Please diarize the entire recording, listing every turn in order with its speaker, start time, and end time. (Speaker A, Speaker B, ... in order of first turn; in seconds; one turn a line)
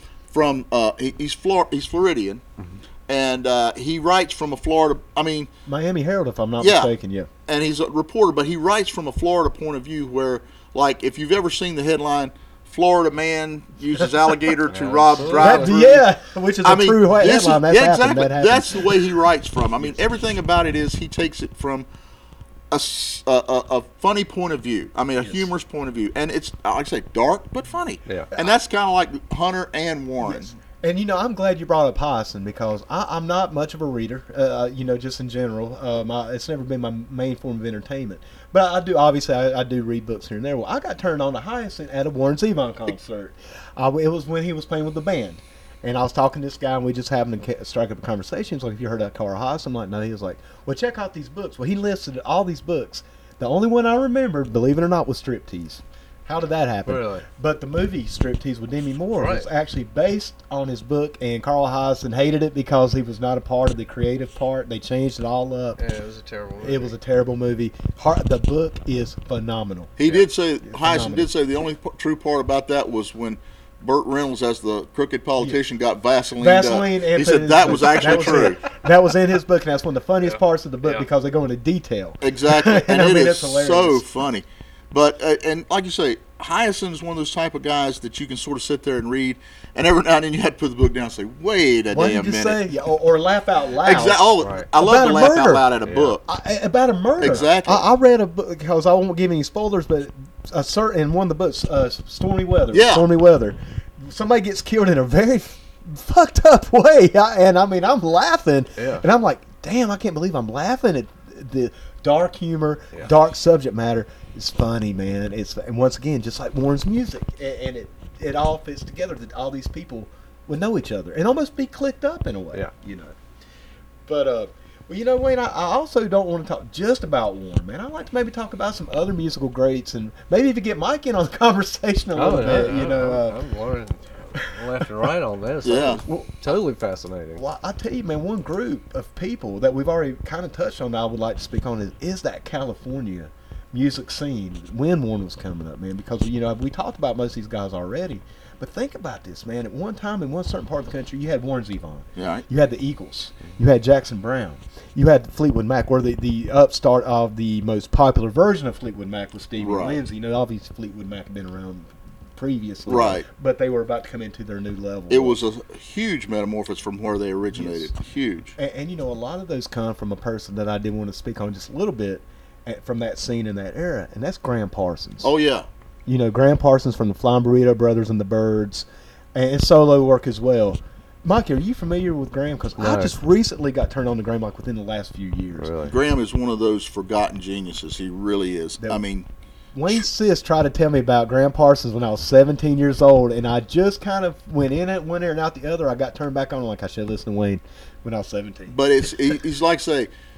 Speaker A: 0.3-2.4
Speaker A: 3.1-5.5
Speaker B: 5.7-7.3
Speaker A: 6.6-6.9
Speaker A: 7.5-16.1
Speaker C: 14.7-15.7
Speaker B: 15.3-19.0
Speaker A: 16.6-21.9
Speaker A: 22.7-30.5
Speaker B: 30.2-65.8
Speaker C: 56.9-57.3
Speaker C: 59.2-59.5
Speaker C: 65.8-66.9
Speaker B: 66.6-69.9
Speaker A: 70.0-78.6
Speaker B: 70.6-71.3
Speaker B: 76.4-84.1
Speaker C: 80.2-81.1
Speaker A: 82.2-92.7
Speaker B: 91.9-95.7
Speaker A: 93.8-96.2
Speaker C: 94.4-94.7
Speaker C: 95.8-96.2
Speaker B: 96.2-123.2
Speaker A: 97.2-97.9
Speaker A: 102.7-103.1
Speaker C: 108.8-109.0
Speaker B: 124.1-133.4
Speaker C: 132.2-137.4
Speaker A: 135.6-136.0
Speaker B: 136.1-136.4
Speaker B: 137.4-165.4
Speaker A: 152.2-152.5
Speaker A: 159.6-160.0
Speaker A: 162.9-163.3
Speaker A: 165.1-168.6
Speaker B: 167.5-167.9
Speaker B: 168.6-175.3
Speaker A: 175.2-175.7
Speaker B: 176.1-185.7
Speaker C: 182.8-183.1
Speaker C: 185.6-185.9
Speaker A: 185.8-189.3
Speaker B: 189.7-198.8
Speaker A: 198.7-200.1